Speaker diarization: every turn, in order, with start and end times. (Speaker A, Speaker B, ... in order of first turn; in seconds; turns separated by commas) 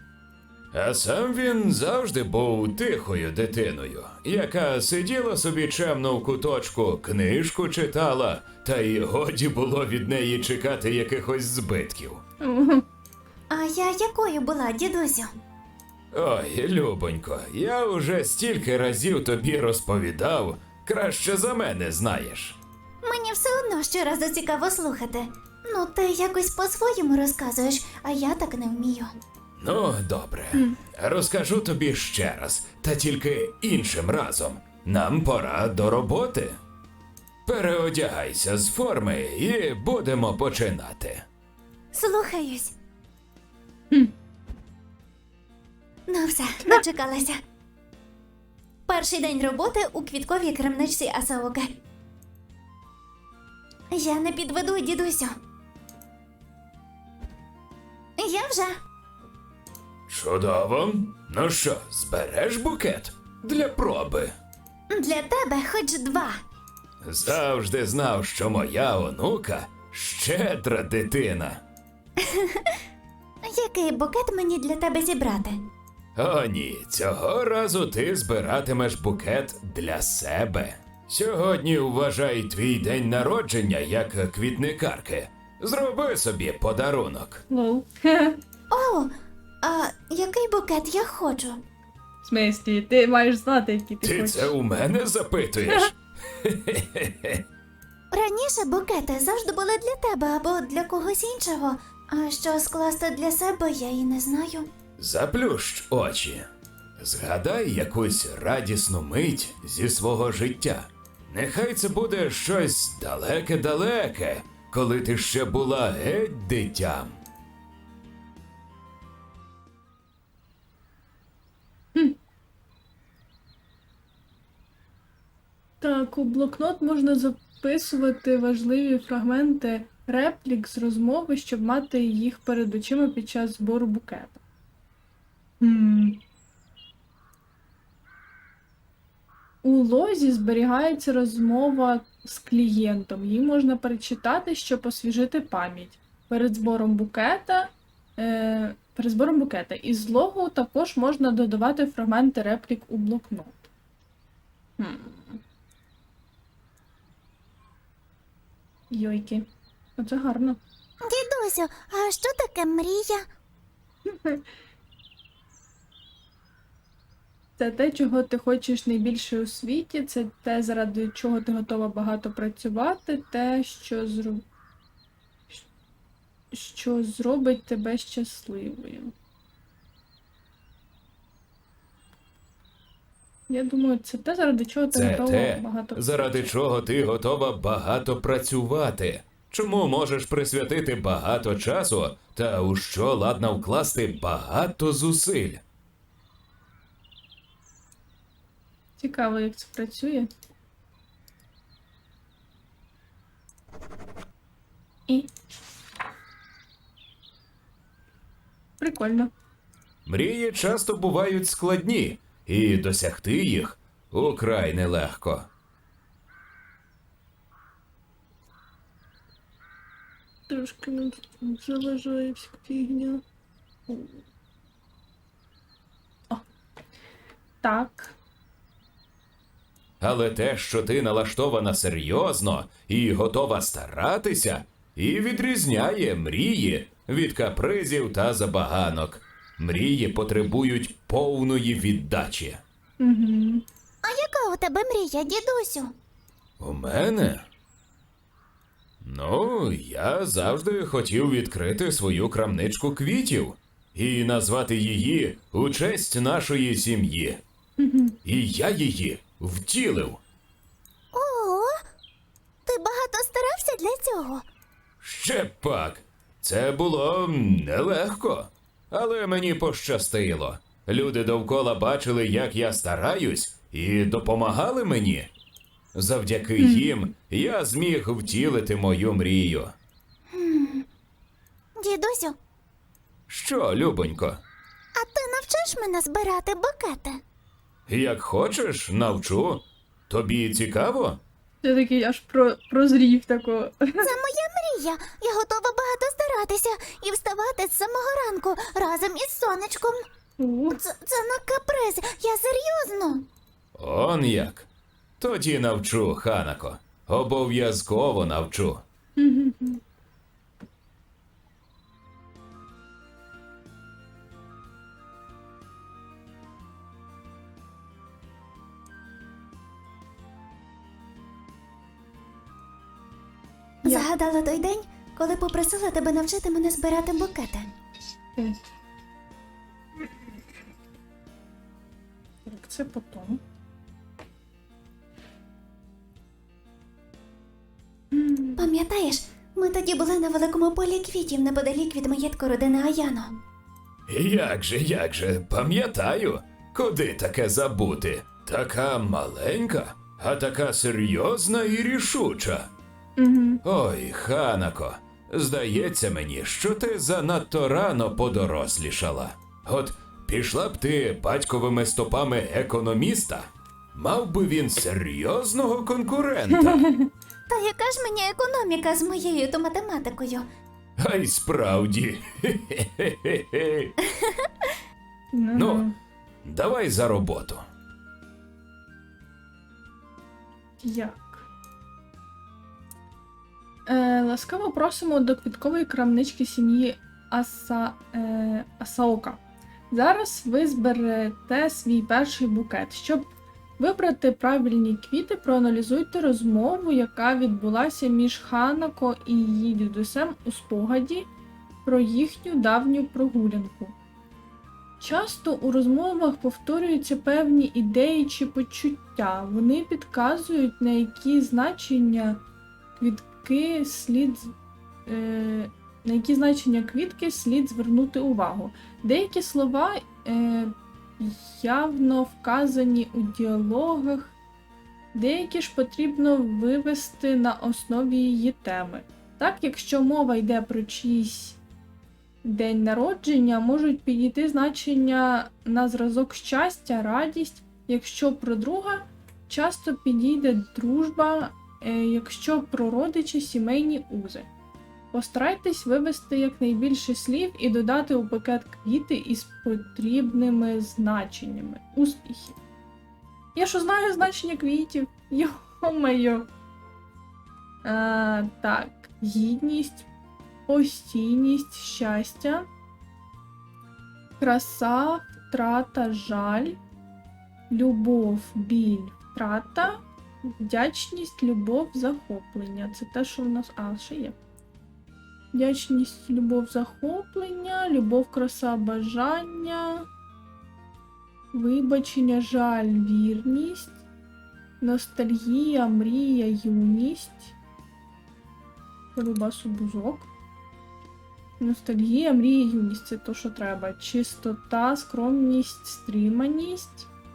Speaker A: 0.7-12.2, Speaker B: 12.4-12.8, Speaker C: 13.5-15.3, Speaker A: 16.1-22.6, Speaker C: 23.0-29.1, Speaker A: 29.6-36.6, Speaker A: 37.5-41.2, Speaker C: 41.9-42.7, Speaker C: 46.1-47.4, Speaker C: 48.9-51.8, Speaker C: 53.9-55.4, Speaker C: 58.2-58.8, Speaker A: 60.1-64.4, Speaker C: 64.9-66.4, Speaker A: 67.0-71.6, Speaker C: 72.2-72.8, Speaker C: 73.4-75.7, Speaker A: 76.2-87.4, Speaker B: 87.5-88.4, Speaker C: 88.7-91.6, Speaker B: 92.2-94.5, Speaker A: 94.0-97.4, Speaker C: 98.1-104.7, Speaker A: 105.0-117.2, Speaker B: 125.8-134.4, Speaker B: 135.6-136.2, Speaker B: 139.6-153.7, Speaker B: 154.8-155.4, Speaker B: 158.9-160.6, Speaker C: 161.0-163.2, Speaker B: 164.1-164.4, Speaker B: 167.6-174.4, Speaker B: 176.5-179.1, Speaker B: 183.5-186.5, Speaker A: 184.9-195.6, Speaker B: 199.0-200.3, Speaker B: 208.8-209.3, Speaker A: 210.1-215.5, Speaker B: 220.5-223.2, Speaker B: 227.6-228.2, Speaker A: 230.0-242.6, Speaker B: 243.0-243.6, Speaker C: 244.0-245.9, Speaker A: 246.6-247.5, Speaker A: 249.0-257.4, Speaker B: 257.8-258.2, Speaker A: 258.2-260.2, Speaker C: 261.1-261.8, Speaker C: 262.6-264.4, Speaker A: 265.0-275.3, Speaker A: 275.9-279.8, Speaker B: 276.6-276.9, Speaker C: 280.3-280.9, Speaker C: 281.8-282.4, Speaker A: 283.3-284.4, Speaker C: 284.9-287.2, Speaker A: 287.9-291.2, Speaker B: 291.6-294.1, Speaker C: 294.0-300.1, Speaker B: 300.4-300.8, Speaker C: 300.8-303.2, Speaker A: 303.8-304.7, Speaker A: 305.2-308.8, Speaker B: 309.2-309.8, Speaker C: 323.8-327.7, Speaker B: 328.4-328.7, Speaker B: 332.4-333.4, Speaker B: 338.1-338.7, Speaker C: 338.6-343.4, Speaker A: 344.1-352.7, Speaker B: 353.2-353.6, Speaker A: 353.6-366.9, Speaker B: 366.5-367.1, Speaker C: 367.5-370.5, Speaker A: 371.0-373.9, Speaker C: 374.0-374.8, Speaker B: 375.3-375.9, Speaker A: 375.5-375.9, Speaker A: 376.4-377.7, Speaker B: 380.8-381.5, Speaker B: 383.9-401.3, Speaker B: 401.9-403.9, Speaker B: 405.0-412.4, Speaker B: 413.0-414.5, Speaker B: 415.1-424.4, Speaker B: 425.1-431.6, Speaker B: 432.4-444.5, Speaker B: 445.1-452.6, Speaker B: 453.5-456.5, Speaker B: 457.8-460.1, Speaker B: 460.7-462.7, Speaker B: 464.4-466.8, Speaker B: 467.7-474.4, Speaker B: 475.5-480.1, Speaker B: 481.5-484.0, Speaker B: 484.8-487.6, Speaker B: 489.1-490.3, Speaker B: 491.6-497.1